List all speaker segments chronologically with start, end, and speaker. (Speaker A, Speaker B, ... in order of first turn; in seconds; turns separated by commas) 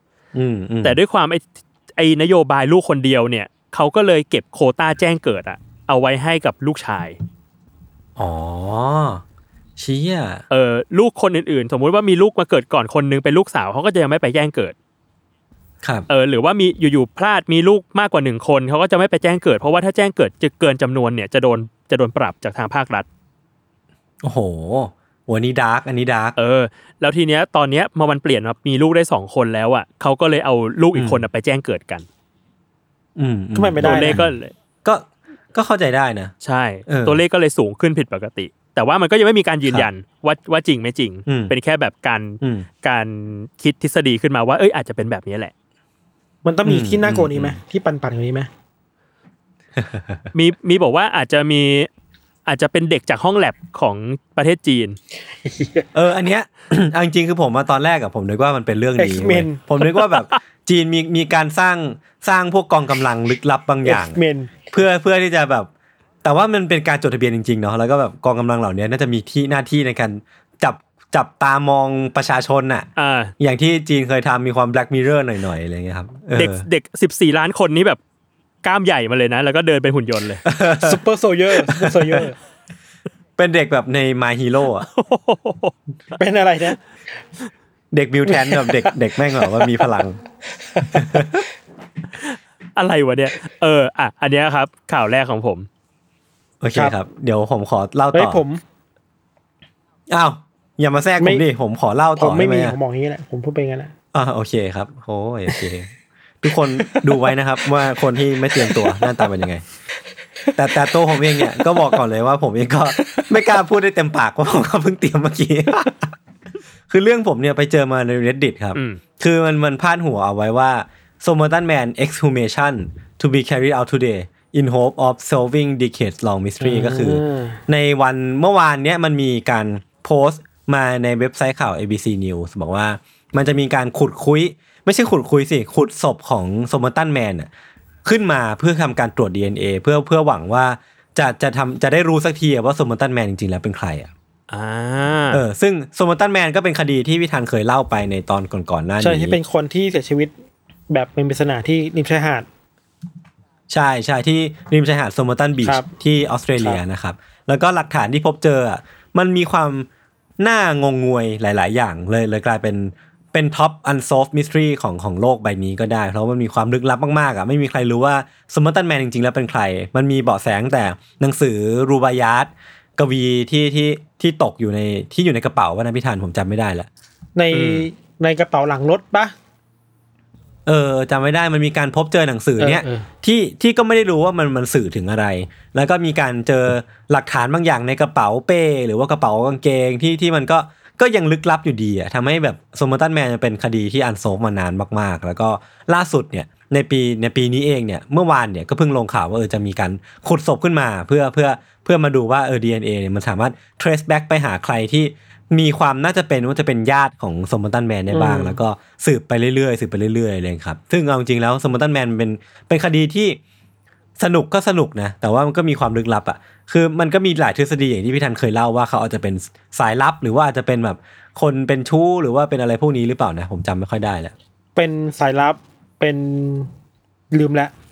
Speaker A: 0.3-1.0, Speaker B: 0.8-7.2, Speaker A: 8.2-9.2, Speaker A: 9.8-10.4, Speaker B: 10.5-14.7, Speaker A: 15.8-16.1, Speaker B: 16.1-23.1, Speaker A: 24.2-26.4, Speaker B: 26.4-32.0, Speaker A: 30.9-31.2, Speaker A: 33.1-34.3, Speaker C: 33.5-34.2, Speaker B: 33.8-34.5, Speaker A: 34.8-36.3, Speaker B: 36.4-45.5, Speaker A: 36.9-37.2, Speaker A: 41.3-41.5, Speaker A: 42.4-42.7, Speaker C: 46.4-48.5, Speaker A: 46.6-47.6, Speaker A: 49.8-50.2, Speaker B: 50.3-51.9, Speaker B: 52.5-55.0, Speaker C: 55.4-55.9, Speaker A: 55.9-64.2, Speaker C: 59.0-59.6, Speaker B: 59.9-60.4, Speaker C: 63.8-64.7, Speaker A: 64.7-65.7, Speaker A: 66.2-72.9, Speaker B: 73.0-73.3, Speaker A: 73.4-76.6, Speaker B: 76.3-78.0, Speaker B: 78.6-80.4, Speaker A: 80.4-82.2, Speaker C: 80.8-82.3, Speaker A: 83.4-84.8, Speaker B: 84.8-85.7, Speaker C: 86.2-86.8, Speaker A: 87.9-90.2, Speaker C: 88.3-89.7, Speaker C: 90.7-91.4, Speaker A: 90.9-91.4, Speaker B: 92.2-95.7, Speaker A: 96.6-98.4, Speaker C: 98.1-98.6, Speaker A: 100.1-102.8, Speaker C: 101.2-101.4, Speaker C: 102.2-103.9, Speaker A: 104.1-105.9, Speaker A: 106.4-109.6, Speaker C: 106.8-107.3, Speaker C: 108.5-109.1, Speaker A: 110.5-116.1, Speaker C: 111.2-111.9, Speaker A: 116.9-137.5, Speaker B: 118.7-119.0, Speaker C: 126.6-127.6, Speaker A: 138.0-144.1, Speaker B: 144.5-145.4, Speaker A: 145.3-149.4, Speaker C: 149.0-150.3, Speaker C: 150.9-152.5, Speaker A: 153.7-159.9, Speaker A: 160.4-176.9, Speaker C: 177.3-179.3, Speaker B: 177.5-177.9, Speaker A: 180.7-213.4, Speaker C: 182.6-183.1, Speaker C: 208.1-208.6, Speaker A: 214.2-224.3, Speaker C: 224.8-226.7, Speaker C: 227.3-227.7